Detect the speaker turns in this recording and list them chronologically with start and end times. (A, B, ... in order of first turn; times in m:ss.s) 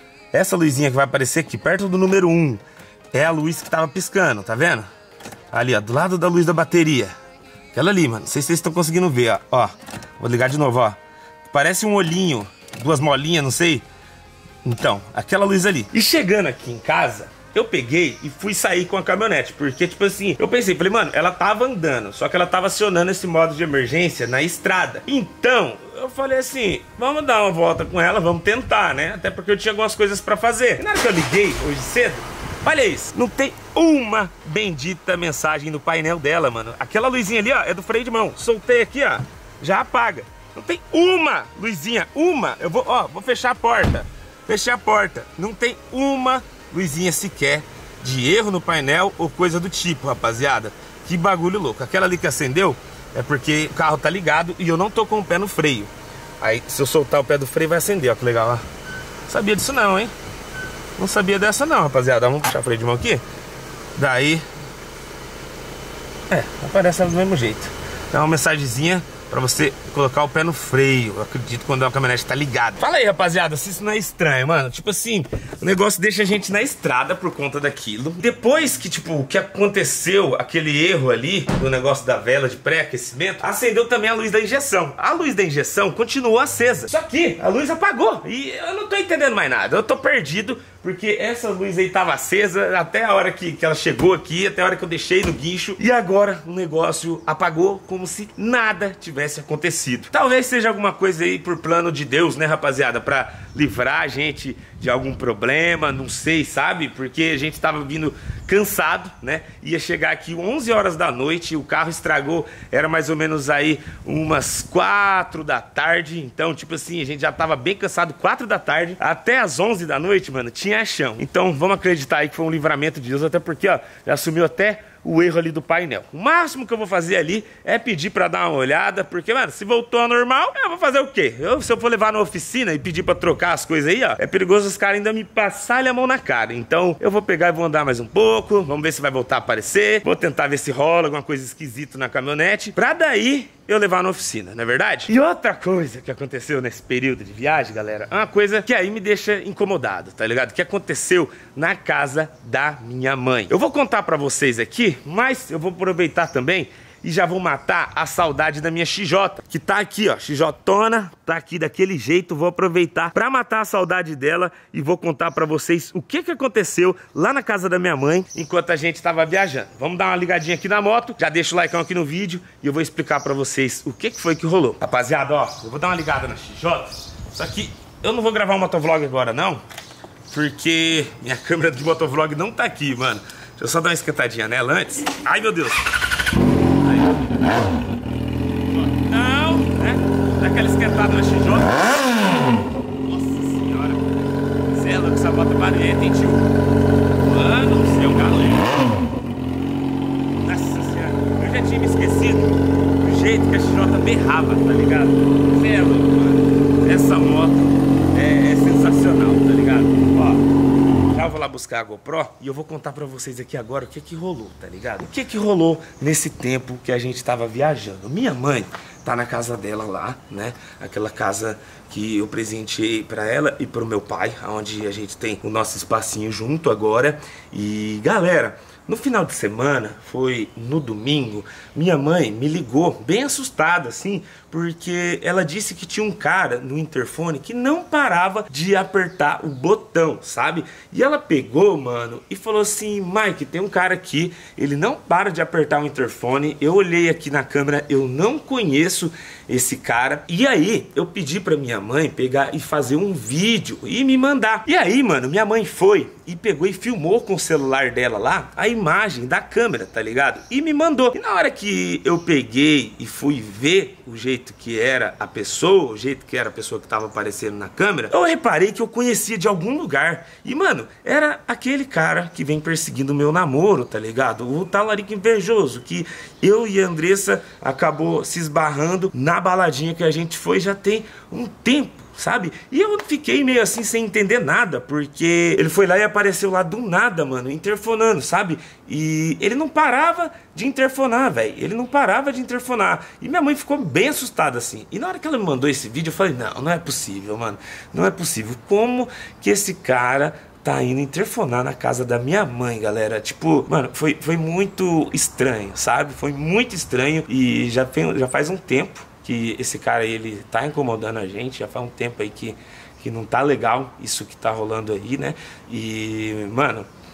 0:00.3-0:02.6 A
0:03.1-0:04.9 A
0:05.5-0:07.1 A
0:07.7-0:13.8 A
0:14.6-0:58.6 A
0:59.3-1:00.1 A
1:01.0-1:03.2 A
1:04.0-1:04.4 A
1:06.3-2:59.6 A
3:00.3-3:06.0 A
3:06.8-3:07.7 A
3:08.7-3:16.5 A
3:17.2-3:19.0 A
3:20.4-3:30.5 A
3:31.0-5:16.9 A